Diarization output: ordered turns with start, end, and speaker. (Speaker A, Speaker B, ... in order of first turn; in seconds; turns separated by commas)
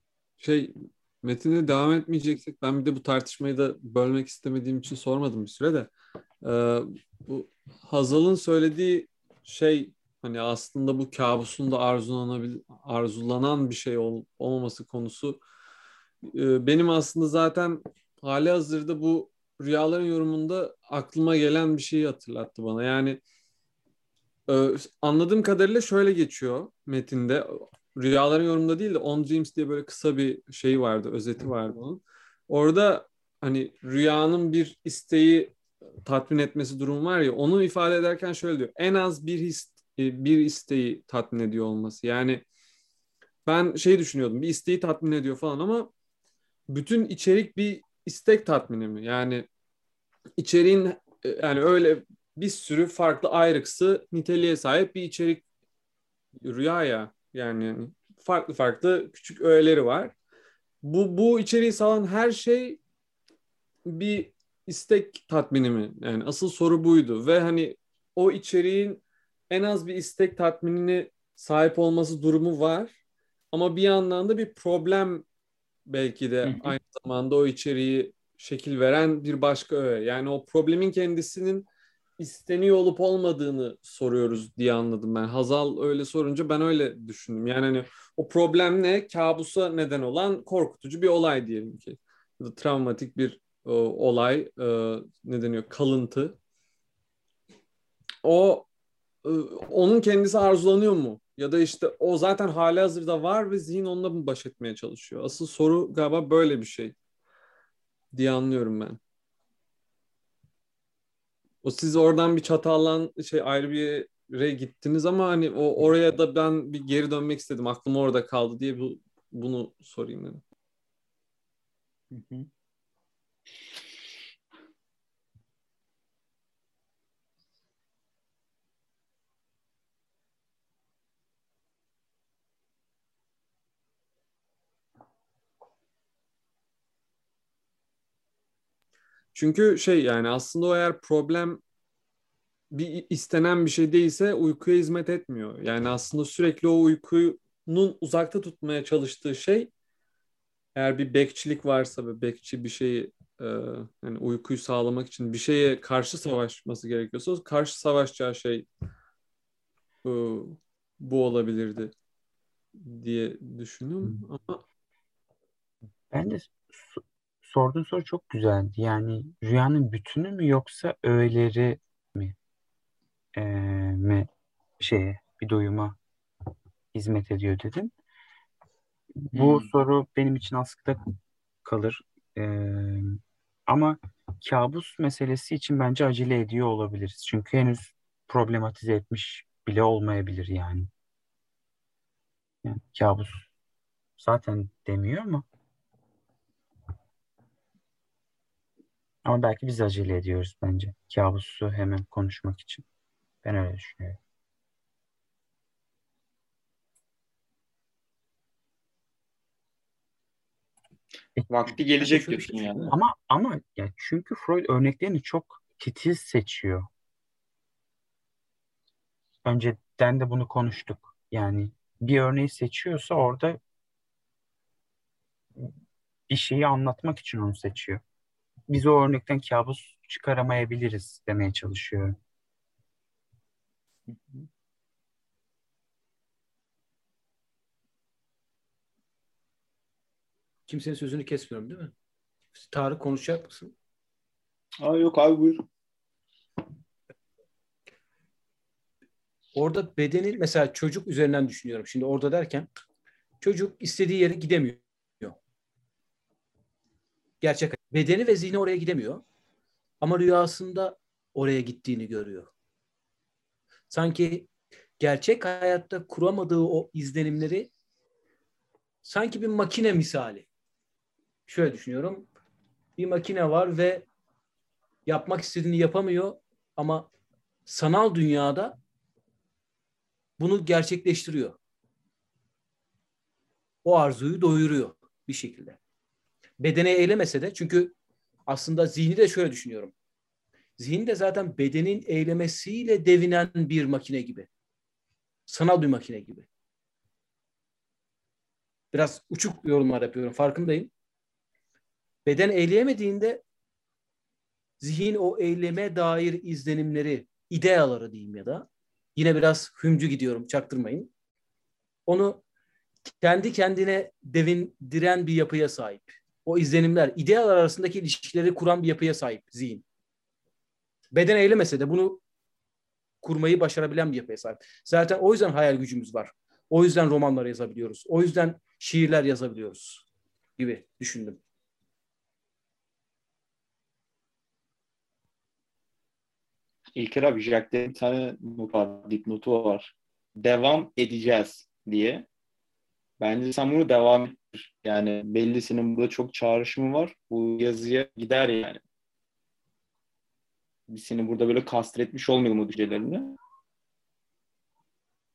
Speaker A: 0.4-15.4, Speaker A: 16.2-23.2, Speaker A: 24.5-42.4, Speaker A: 43.5-45.9, Speaker A: 46.7-49.5, Speaker A: 50.4-55.4, Speaker A: 56.4-60.1, Speaker A: 60.8-62.8, Speaker A: 63.9-73.0, Speaker A: 73.5-75.2, Speaker A: 75.8-81.7, Speaker B: 76.4-76.7, Speaker A: 82.2-96.4, Speaker A: 98.2-98.7, Speaker A: 99.2-106.9, Speaker A: 108.1-109.0, Speaker A: 111.6-120.4, Speaker B: 122.1-122.4, Speaker A: 139.3-141.6, Speaker A: 142.7-149.7, Speaker A: 150.7-158.7, Speaker A: 160.0-161.9, Speaker A: 162.8-164.6, Speaker C: 166.1-172.3, Speaker C: 173.3-174.3, Speaker C: 174.8-176.0, Speaker C: 176.9-177.9, Speaker C: 179.2-181.0, Speaker B: 179.4-179.6, Speaker C: 181.6-190.9, Speaker C: 192.6-193.5, Speaker C: 194.2-195.4, Speaker C: 199.2-202.8, Speaker C: 203.4-204.2, Speaker B: 211.5-212.9, Speaker D: 212.0-212.9, Speaker C: 212.9-216.9, Speaker C: 219.4-223.6, Speaker C: 226.3-228.0, Speaker C: 228.7-232.2, Speaker D: 240.7-241.9, Speaker D: 242.5-243.7, Speaker B: 244.8-245.6, Speaker D: 249.5-252.7, Speaker D: 253.4-255.3, Speaker D: 257.4-259.2, Speaker D: 260.0-262.5, Speaker D: 263.9-267.7, Speaker D: 269.0-270.5, Speaker D: 271.5-272.3, Speaker D: 273.0-274.1, Speaker D: 275.1-277.1, Speaker D: 277.6-278.8, Speaker D: 280.4-281.6, Speaker D: 283.8-285.8, Speaker D: 286.6-287.9, Speaker D: 288.5-289.9, Speaker D: 290.8-294.5, Speaker D: 295.5-296.4, Speaker D: 298.9-300.9, Speaker D: 302.2-303.4, Speaker D: 304.8-311.1, Speaker D: 312.1-312.4, Speaker D: 313.1-319.8, Speaker D: 321.1-322.2, Speaker D: 323.2-330.1, Speaker D: 330.6-331.4, Speaker B: 336.9-342.3, Speaker B: 343.2-348.8, Speaker B: 350.9-353.4